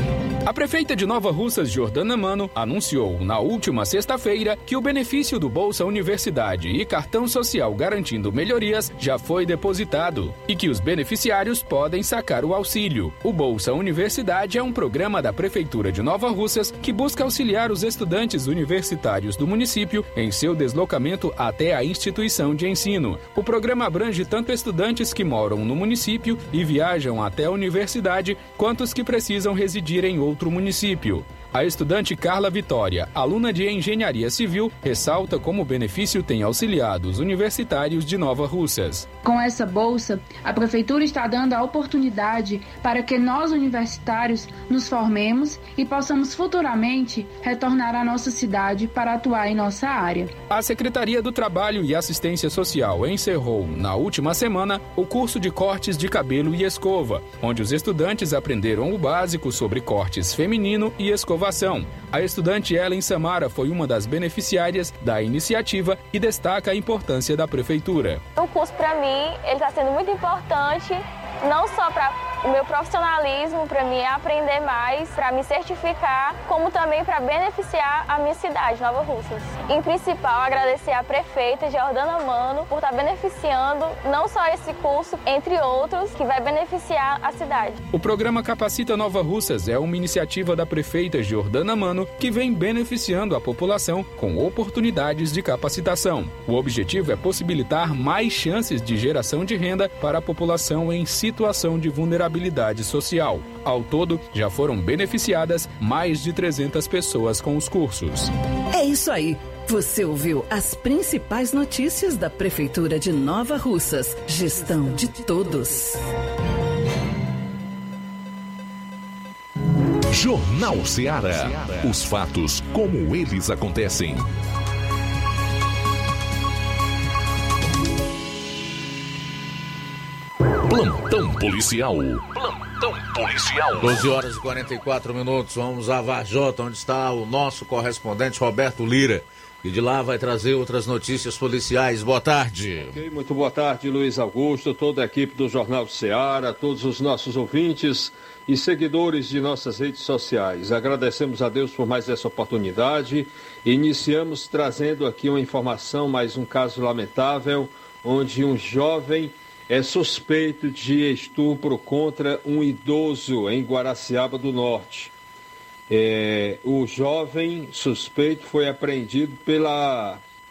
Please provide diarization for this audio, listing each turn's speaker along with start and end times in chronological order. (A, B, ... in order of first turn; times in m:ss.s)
0:00.4-0:39.1 A
0:39.2-0:50.3 B
0:50.5-1:08.2 A
1:08.4-1:27.8 C
1:27.9-1:48.3 A
1:48.7-1:56.0 D
2:00.1-2:04.3 E
2:10.7-2:14.1 E
2:13.8-2:23.0 F
2:22.9-2:45.1 G
2:45.9-2:50.2 G